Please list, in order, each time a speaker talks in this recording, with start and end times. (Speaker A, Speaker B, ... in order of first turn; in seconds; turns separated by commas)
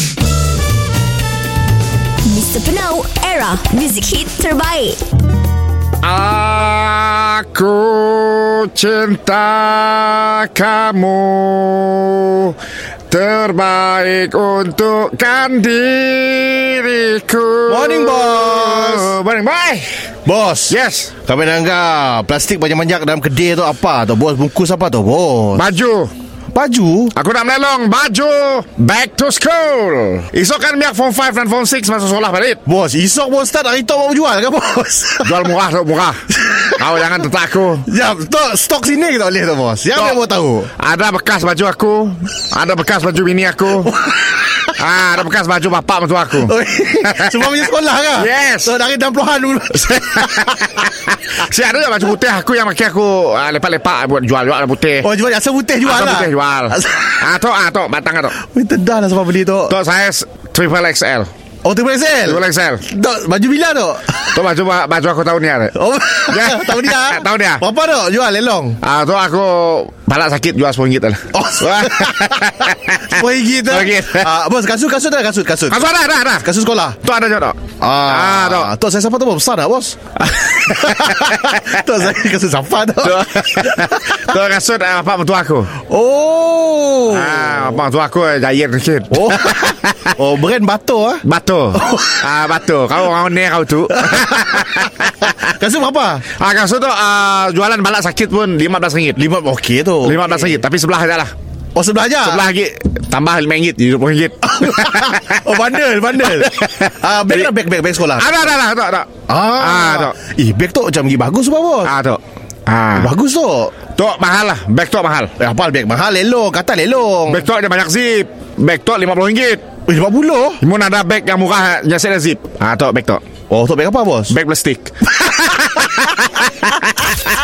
Speaker A: 2.2-5.0, Speaker B: 6.0-12.6, Speaker B: 13.1-19.9, Speaker C: 17.7-19.2, Speaker C: 20.3-25.7, Speaker B: 20.7-21.2, Speaker B: 25.5-26.1, Speaker C: 26.5-27.1, Speaker B: 27.1-32.6, Speaker C: 32.7-35.5, Speaker B: 35.2-37.9, Speaker C: 36.4-36.9, Speaker C: 37.9-40.7, Speaker B: 40.8-44.0, Speaker C: 43.9-44.4, Speaker B: 44.8-48.8, Speaker C: 46.4-50.8, Speaker B: 50.2-55.1, Speaker C: 55.0-57.2, Speaker B: 55.8-58.4, Speaker C: 58.4-59.8, Speaker B: 59.7-61.3, Speaker C: 61.6-64.4, Speaker B: 62.2-62.9, Speaker B: 64.3-65.8, Speaker C: 65.8-68.8, Speaker B: 66.3-67.7, Speaker B: 68.8-74.3, Speaker C: 71.3-72.3, Speaker C: 73.1-77.0, Speaker B: 75.7-76.5, Speaker B: 77.0-78.7, Speaker C: 77.8-80.0, Speaker B: 80.3-81.6, Speaker C: 80.5-84.3, Speaker B: 83.0-85.8, Speaker C: 85.9-87.8, Speaker B: 87.1-90.1, Speaker C: 89.1-91.2, Speaker B: 91.2-95.3, Speaker C: 94.0-96.2, Speaker B: 96.3-99.2, Speaker C: 99.2-100.6, Speaker B: 100.0-101.3, Speaker C: 101.8-102.5, Speaker B: 102.2-105.4, Speaker C: 104.5-108.5, Speaker B: 106.2-107.5, Speaker B: 108.2-110.2, Speaker C: 109.3-111.9, Speaker B: 111.8-113.1, Speaker C: 113.0-113.8, Speaker B: 114.0-115.4, Speaker C: 115.4-117.5, Speaker B: 117.3-119.7, Speaker C: 119.9-120.6, Speaker B: 120.6-123.2, Speaker C: 123.5-124.3, Speaker B: 124.3-127.3